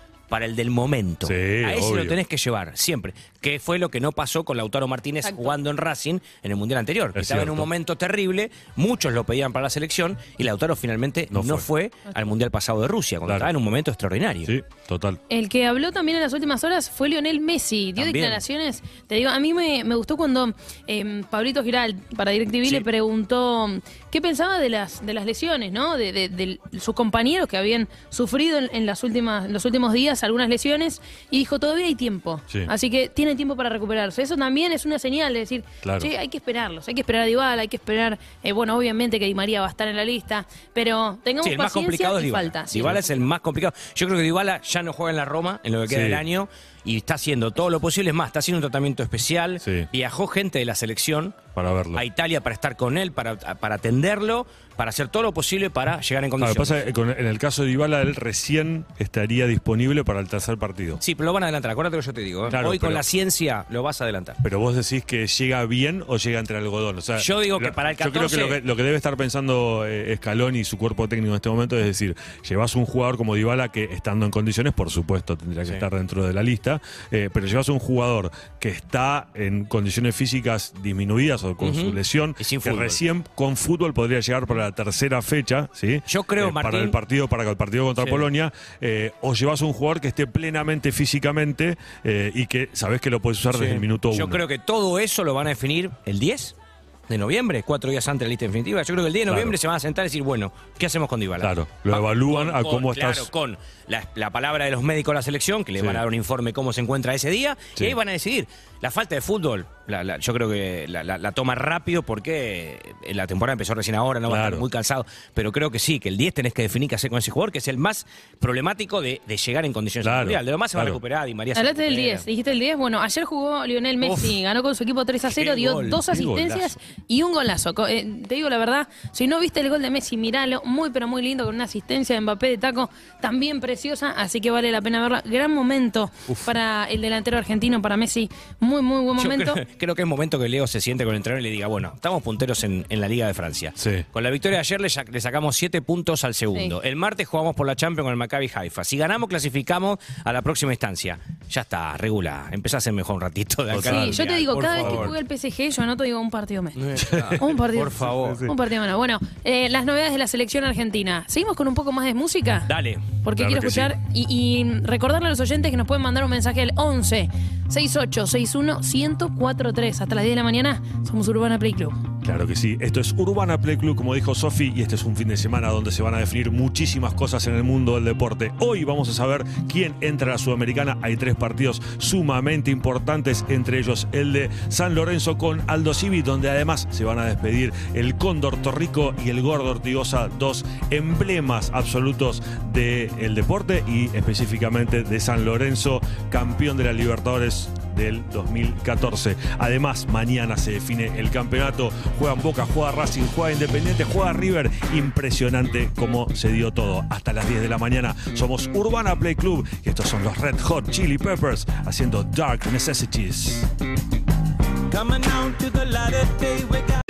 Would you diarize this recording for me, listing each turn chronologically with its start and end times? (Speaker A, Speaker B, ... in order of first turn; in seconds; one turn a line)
Speaker A: 0.3-14.5
Speaker B: 1.2-2.2
Speaker C: 5.2-5.6
Speaker B: 7.1-7.7
Speaker B: 11.3-11.7
Speaker B: 13.2-13.5
Speaker B: 14.4-15.2
Speaker C: 15.3-43.2
Speaker A: 17.9-18.4
Speaker B: 35.8-36.1
Speaker A: 41.4-51.4
Speaker B: 45.9-46.2
Speaker B: 49.6-49.9
Speaker B: 51.5-52.0
Speaker A: 52.0-56.8
Speaker B: 56.4-61.0
Speaker A: 61.0-64.4
Speaker B: 62.5-63.0
Speaker B: 64.4-94.4
Speaker A: 67.2-68.6
Speaker A: 81.6-83.0
Speaker A: 86.1-87.0
Speaker A: 88.0-88.3
Speaker A: 93.5-96.5
Speaker A: 97.1-122.2
Speaker B: 99.2-99.6
Speaker B: 101.4-103.3
Speaker B: 105.8-106.0
Speaker B: 114.2-114.7
Speaker B: 120.0-121.0
Speaker C: 121.5-139.6
Speaker A: 124.0-124.3
Speaker A: 125.2-126.0
Speaker B: 126.0-126.8
Speaker A: 139.2-155.1
Speaker B: 143.8-144.1
Speaker B: 153.7-155.2
Speaker C: 153.8-162.7
Speaker A: 156.8-158.4
Speaker B: 157.0-157.4
Speaker B: 158.1-158.5
Speaker A: 162.7-163.1
Speaker C: 163.2-172.0
Speaker B: 163.3-163.9
Speaker B: 172.2-213.7
Speaker A: 214.9-216.9